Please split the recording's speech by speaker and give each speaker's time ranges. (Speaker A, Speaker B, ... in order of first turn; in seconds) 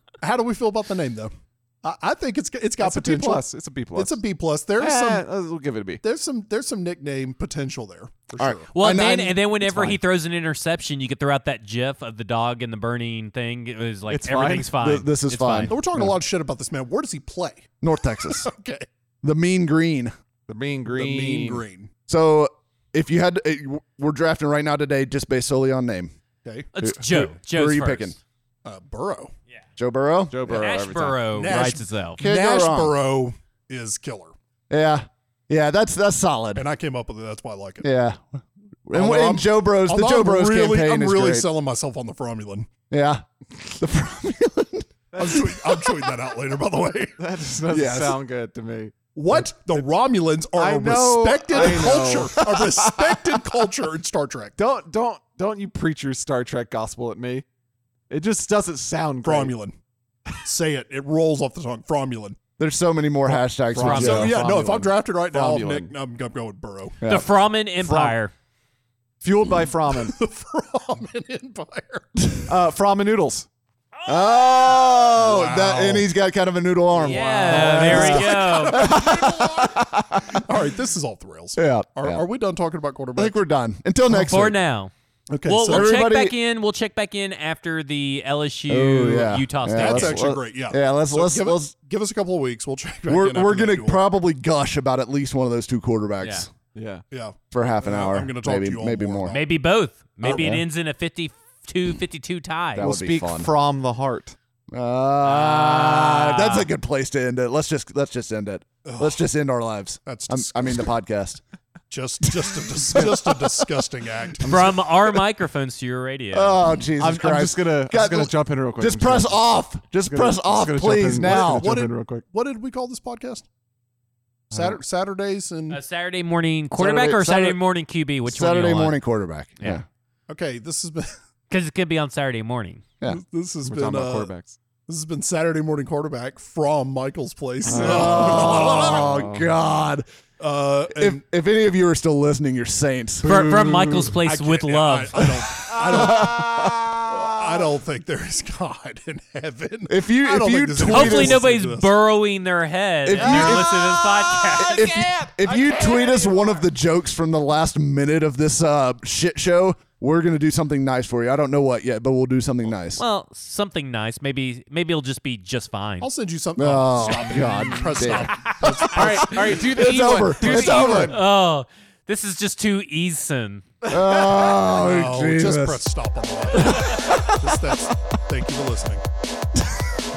Speaker A: 0.2-3.4, 3.9-5.2, 6.0-8.7, 15.7-17.7, 18.2-18.9, 20.9-21.9, 28.6-29.3, 31.3-34.3, 36.5-37.9, 38.9-42.7, 45.2-47.1, 49.1-54.5, 59.2-59.7, 60.4-62.4, 63.8-67.0, 70.0-72.1, 74.9-76.0, 76.9-83.3, 85.3-86.0, 89.7-94.0, 97.1-99.4, 108.8-109.2, 110.0-110.9, 111.9-114.5, 121.2-123.5, 124.5-125.8, 130.3-131.1, 133.0-134.3, 134.9-139.1, 140.4-141.2, 144.2-151.9, 166.0-169.6, 174.7-179.0
Speaker B: 2.8-4.2, 4.8-6.0, 14.1-14.8, 20.5-21.6, 30.3-31.5, 45.1-45.4, 47.2-49.8, 50.5-52.8, 54.6-57.4, 58.1-59.5, 63.7-65.9, 67.8-68.2, 69.2-70.2, 72.5-73.5, 96.7-97.0, 102.8-104.3, 114.4-114.9, 117.0-119.4, 120.0-122.2, 133.6-134.6, 137.7-139.5, 153.1-156.5, 168.9-171.2
Speaker C: 8.4-10.0, 14.8-16.1, 17.8-18.5, 19.2-20.1, 22.1-26.1, 26.8-28.2, 29.8-30.7, 32.2-33.0, 34.7-36.6, 37.8-41.5, 42.9-46.1, 47.7-48.2, 51.6-51.9, 62.6-64.4, 67.0-67.3, 74.0-80.4, 81.5-82.2, 83.2-84.6, 85.7-86.3, 88.7-91.7, 93.1-96.5, 97.5-99.4, 100.2-100.6, 102.8-103.5, 104.7-111.4, 112.4-113.4, 116.3-121.7, 124.5-124.8, 126.8-127.6, 128.3-129.8, 137.7-140.0, 140.9-144.2, 145.5-147.4, 149.9-151.4, 153.0-153.8, 154.6-163.0, 166.6-171.2, 173.8-175.8, 176.5-177.7, 179.6-179.9
Speaker D: 8.7-15.7, 26.7-28.1, 30.4-32.2, 63.8-64.3, 67.0-68.3, 74.0-74.6, 77.0-78.8, 84.1-84.9, 85.4-90.3, 99.3-102.9, 105.2-106.7, 114.5-116.6, 125.7-129.0, 131.5-132.8, 143.2-145.3, 150.9-154.8, 163.0-166.1, 170.4-173.6